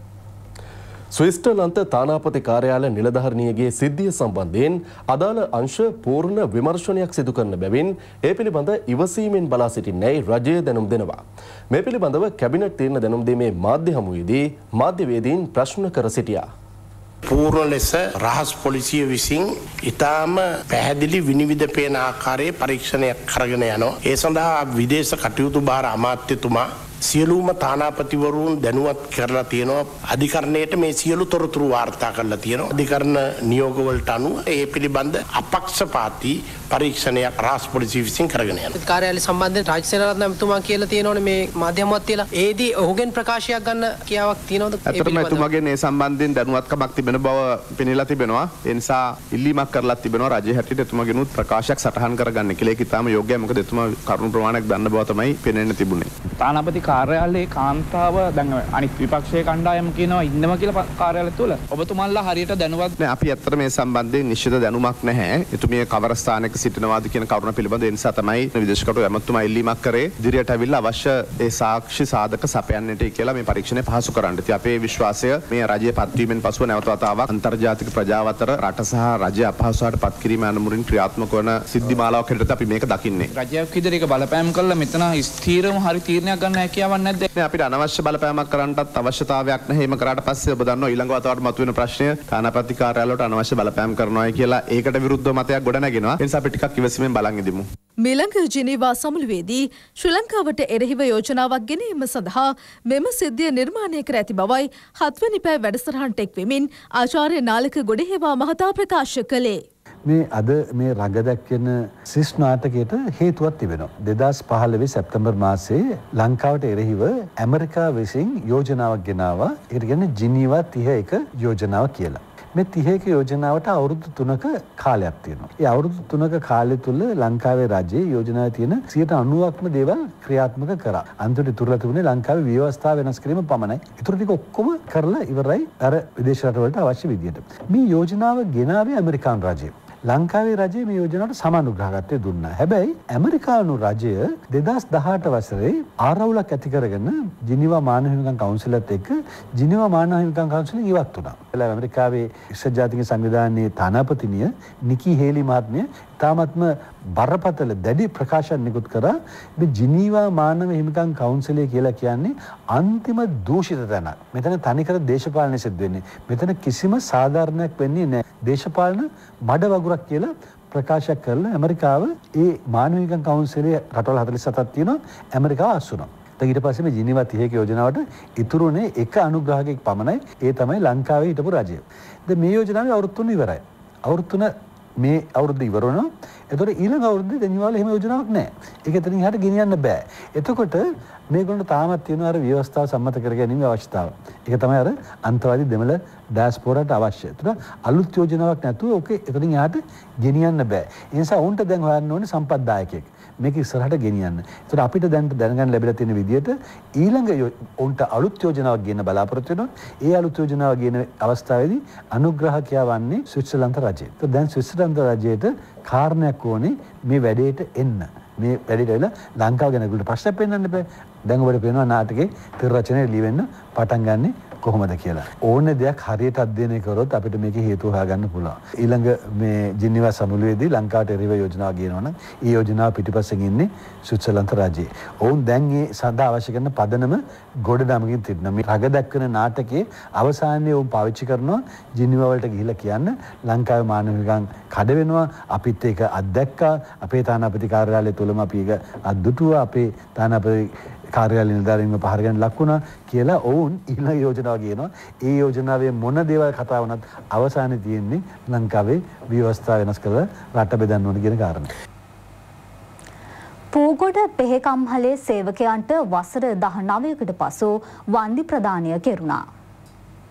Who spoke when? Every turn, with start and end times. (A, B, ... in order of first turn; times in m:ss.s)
0:01.1-0:11.2 A
0:11.7-0:16.5 A
0:17.3-0:38.7 B
0:38.9-0:45.4 C
0:44.8-0:56.1 D
0:56.4-1:02.9 E
0:58.4-0:58.7 C
1:03.0-1:23.3 D
1:23.5-1:23.7 E
1:27.3-1:37.6 D
1:38.0-1:49.6 F
1:50.0-4:21.7 G
4:23.7-4:29.4 H